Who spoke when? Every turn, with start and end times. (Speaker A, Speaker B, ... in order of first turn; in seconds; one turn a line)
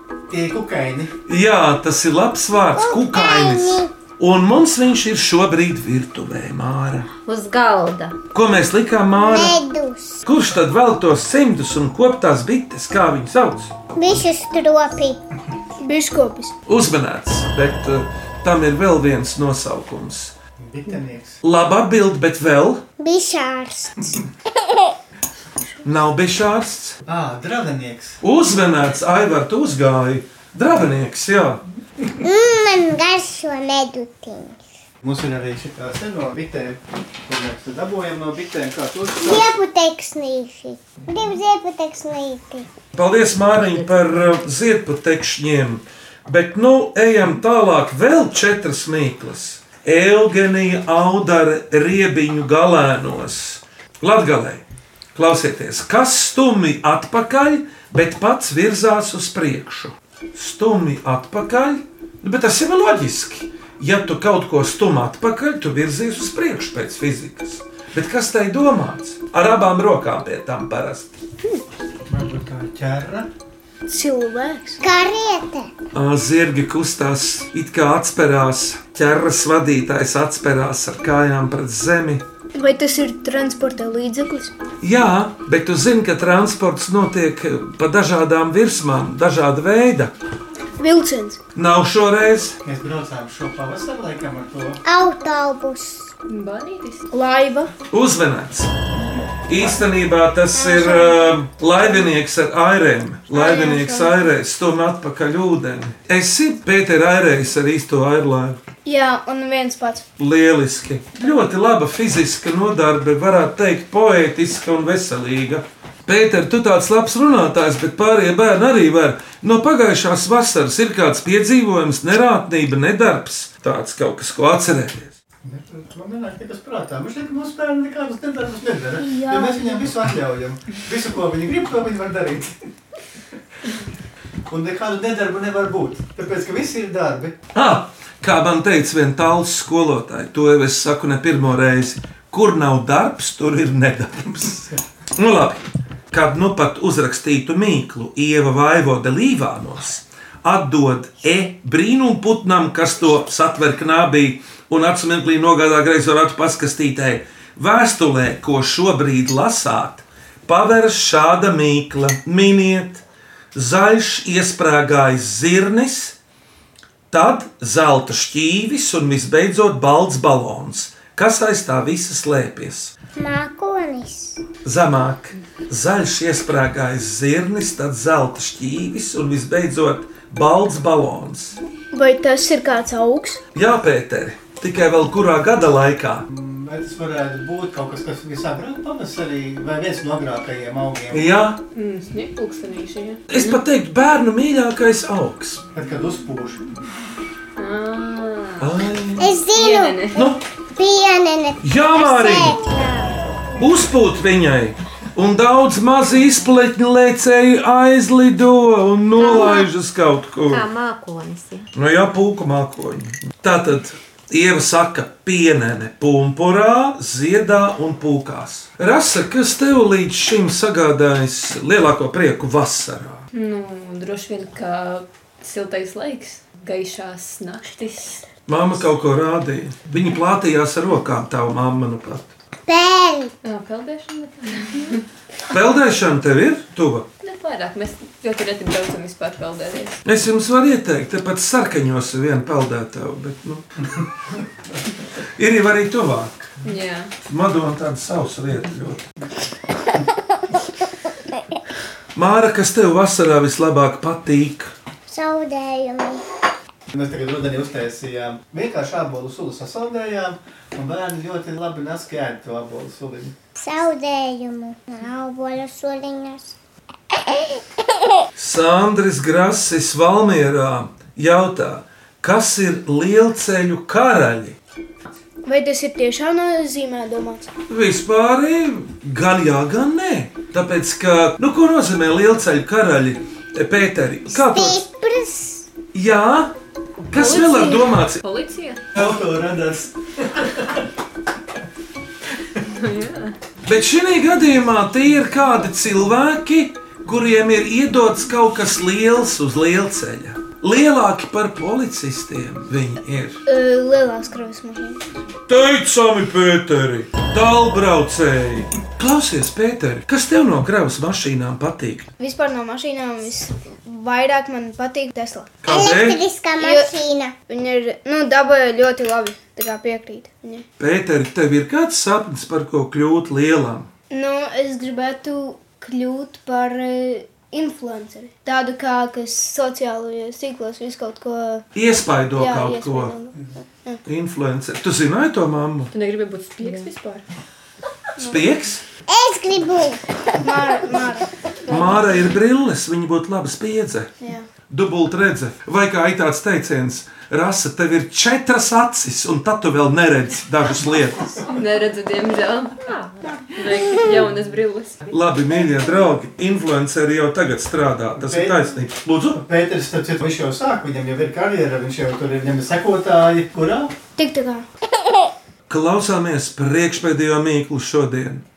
Speaker A: 0.3-1.1
Speaker B: 1.3-7.1
Speaker C: 2.8-3.9
Speaker D: 7.2-8.2
Speaker B: 8.3-9.6
Speaker C: 9.2-10.2
Speaker B: 10.2-13.7
Speaker C: 13.9-15.2
Speaker E: 15.8-16.5
Speaker B: 16.7-20.3
Speaker A: 20.6-21.4
Speaker B: 21.4-22.8
Speaker C: 23.0-24.9
Speaker B: 25.8-27.0
Speaker A: 27.1-28.2
Speaker B: 28.2-31.6
Speaker C: 32.2-34.6
Speaker A: 35.0-39.5
Speaker C: 39.2-42.7
Speaker B: 42.9-54.6
Speaker B: 55.1-71.2
Speaker A: 72.1-73.3
Speaker E: 73.9-74.8
Speaker C: 74.8-75.7
Speaker B: 75.9-82.2
Speaker E: 82.5-84.5
Speaker B: 84.8-90.1
Speaker E: 90.8-91.4
Speaker B: 91.5-92.6
Speaker A: 92.6-94.8
Speaker C: 94.8-96.1
Speaker F: 96.3-97.1
Speaker E: 97.1-97.7
Speaker B: 97.9-98.7
Speaker B: 99.5-108.6
Speaker E: 103.3-104.2
Speaker E: 108.8-110.0
Speaker B: 110.2-125.2
Speaker A: 125.4-132.5
Speaker E: 129.0-129.9
Speaker A: 134.5-137.3
Speaker B: 137.5-163.0
Speaker B: 163.5-166.2
Speaker B: 167.1-172.9
Speaker C: 173.2-174.4
Speaker B: 174.6-181.6
Speaker E: 181.9-183.4
Speaker B: 183.5-186.3
Speaker A: 186.3-191.3
Speaker B: 191.1-191.6
Speaker F: 191.7-193.6
Speaker B: 193.3-195.6
Speaker A: 195.7-196.6
Speaker F: 197.6-198.7
Speaker B: 198.6-199.3
Speaker C: 199.2-203.2
Speaker F: 199.5-200.3
Speaker B: 200.2-200.4
Speaker B: 201.6-202.6
Speaker B: 203.6-210.7
Speaker D: 209.2-209.6
Speaker C: 209.2-209.6
Speaker D: 210.5-211.7
Speaker B: 211.7-223.2
Speaker F: 223.3-228.2
Speaker B: 228.5-232.3
Speaker C: 232.7-233.3
Speaker F: 233.4-235.0
Speaker B: 235.5-237.1
Speaker F: 237.2-240.0
Speaker B: 240.0-243.7
Speaker B: 245.4-246.3
Speaker F: 246.6-247.1
Speaker B: 247.3-249.0
Speaker B: 252.1-254.7
Speaker C: 255.1-256.2
Speaker A: 256.9-263.3
Speaker C: 263.6-266.5
Speaker C: 267.3-267.6
Speaker B: 268.4-274.6
Speaker E: 275.4-277.5
Speaker B: 277.7-284.8
Speaker C: 284.3-285.7
Speaker B: 285.9-286.5
Speaker B: 287.1-288.2
Speaker F: 287.1-288.8
Speaker A: 288.9-290.8
Speaker F: 292.6-293.4
Speaker B: 293.6-303.4
Speaker E: 303.4-305.0
Speaker B: 305.5-312.1
Speaker E: 312.2-315.6
Speaker B: 315.6-316.2
Speaker C: 315.7-317.3
Speaker E: 316.6-320.6
Speaker B: 320.8-323.9
Speaker E: 324.1-331.6
Speaker B: 331.7-333.2
Speaker E: 332.4-334.0
Speaker B: 334.1-335.9
Speaker F: 335.9-337.2
Speaker B: 338.3-338.8
Speaker C: 339.1-340.0
Speaker E: 340.4-341.8
Speaker B: 341.7-344.1
Speaker E: 344.2-344.5
Speaker B: 344.7-351.4
Speaker F: 351.4-352.9
Speaker D: 352.9-353.2
Speaker F: 353.5-355.1
Speaker B: 355.1-359.4
Speaker A: 358.2-358.7
Speaker A: 359.3-363.9
Speaker E: 364.1-364.6
Speaker B: 365.7-368.4